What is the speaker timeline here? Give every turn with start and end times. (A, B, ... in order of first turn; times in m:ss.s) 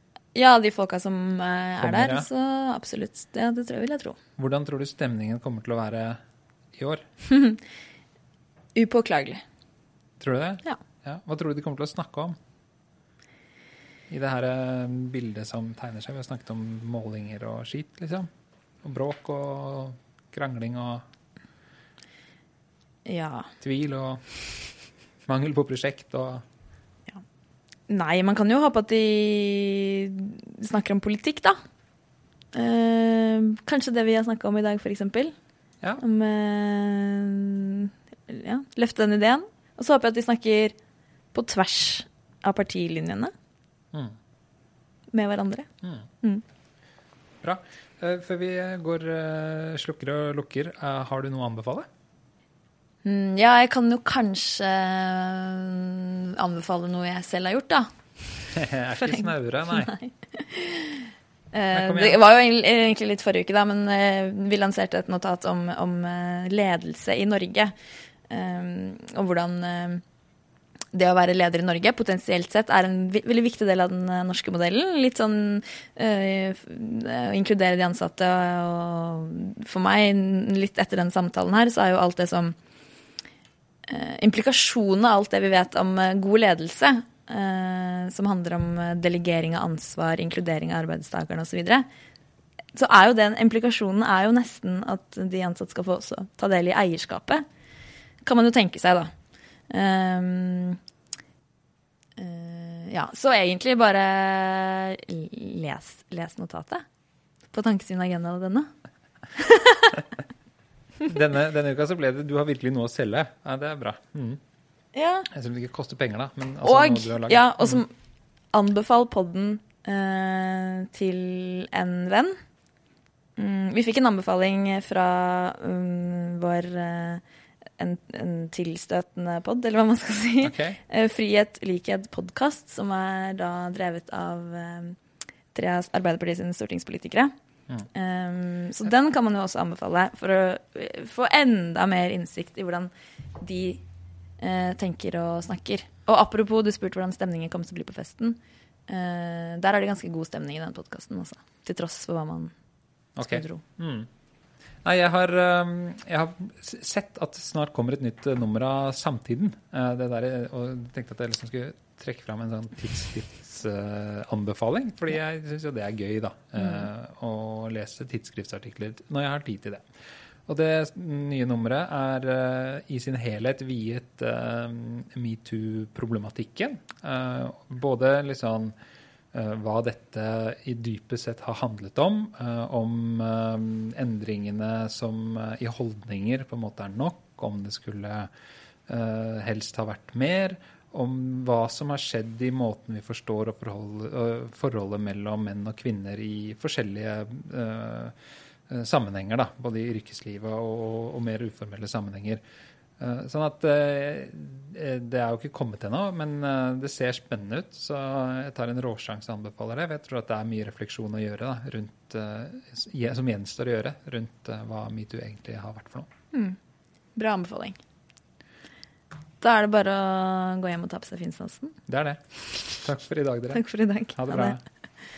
0:00.3-0:04.2 A
0:01.8-0:02.3 B
0:04.4-0:06.2 B
0:06.7-0:07.0 B
0:07.3-0:07.6 A
0:08.8-0:09.4 A
0:10.2-0:12.4 B
0:14.1-0:18.3 B
0:18.8-0:21.0 B
0:23.1-0:23.5 A
0:23.6-0:24.3 B
0:25.3-0:26.4 B
0:27.9-0:31.6 A
0:32.5-0:35.4 A
0:36.0-0:40.8 A
0:41.3-0:43.3 A
0:45.1-0:45.7 A
0:47.4-0:51.9 B
0:53.0-0:58.4 A
0:58.6-0:59.9 B
0:59.0-1:07.7 A
1:01.7-1:02.2 B
1:08.3-1:10.0 A
1:10.9-1:22.6 A
1:23.9-1:31.9 A
1:32.7-1:37.4 A
1:38.2-1:39.1 A
1:39.7-1:40.8 A
1:42.2-1:46.8 A
1:47.5-1:48.7 A
1:49.4-1:50.0 A
1:51.1-1:54.4 B
1:54.9-1:55.3 A
1:55.3-1:57.8 B
1:56.6-1:57.9 A
1:58.5-2:02.4 A
2:03.4-2:07.2 A
2:07.8-2:15.0 A
2:10.4-2:10.8 B
2:15.5-2:17.3 A
2:17.9-2:23.8 A
2:24.4-2:32.5 A
2:33.2-2:34.1 B
2:33.2-2:33.6 A
2:34.8-2:49.9 B
2:50.5-2:58.7 B
2:59.3-3:08.3 B
3:08.9-3:18.2 B
3:18.7-3:22.4 B
3:23.0-3:36.1 B
3:37.2-3:37.8 A
3:39.4-3:41.8 A
3:41.9-3:42.2 B
3:42.7-3:43.6 B
3:43.5-3:44.6 A
3:44.2-3:44.6 B